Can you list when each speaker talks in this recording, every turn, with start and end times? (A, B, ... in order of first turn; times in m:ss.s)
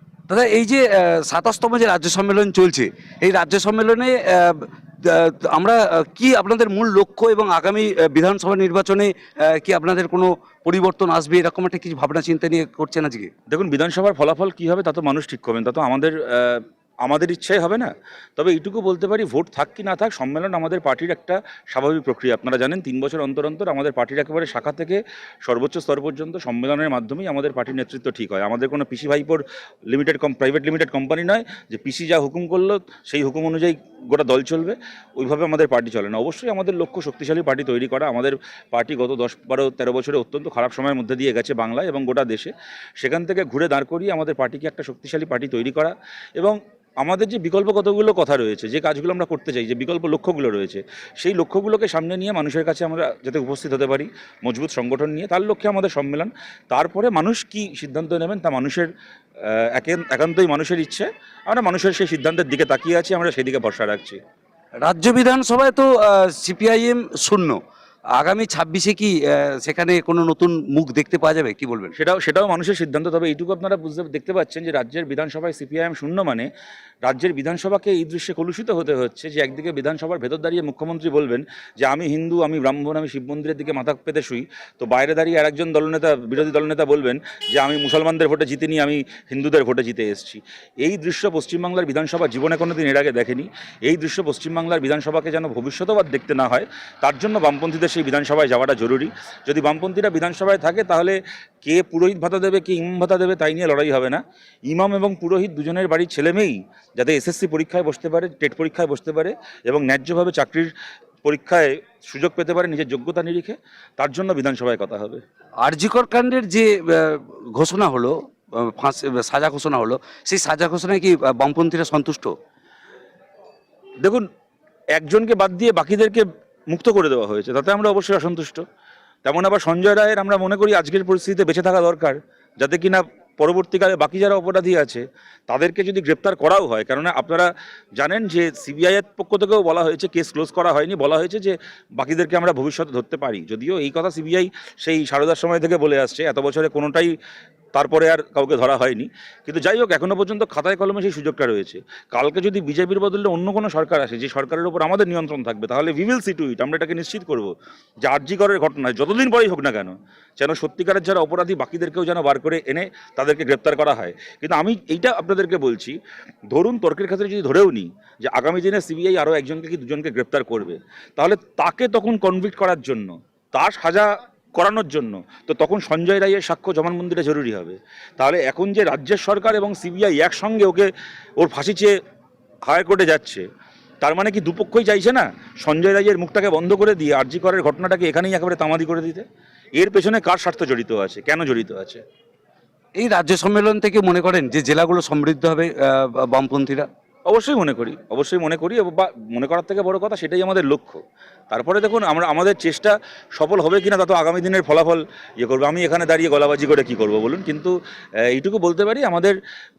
0:00.3-0:13.3 A
0:13.5-0:58.9 B
0:59.5-1:04.2 B
1:04.8-1:07.6 A
1:08.2-1:11.9 A
1:12.0-1:16.5 B
1:17.0-1:50.7 B
1:51.2-1:55.2 B
1:55.6-2:02.3 A
2:05.0-2:08.6 B
2:09.2-2:27.2 B
2:27.7-2:46.0 B
2:46.5-3:01.9 B
3:02.7-3:03.4 B
3:04.0-3:09.2 B
3:09.8-3:12.0 B
3:13.0-3:16.9 A
3:17.3-3:21.0 B
3:21.5-3:27.7 B
3:28.3-3:29.4 B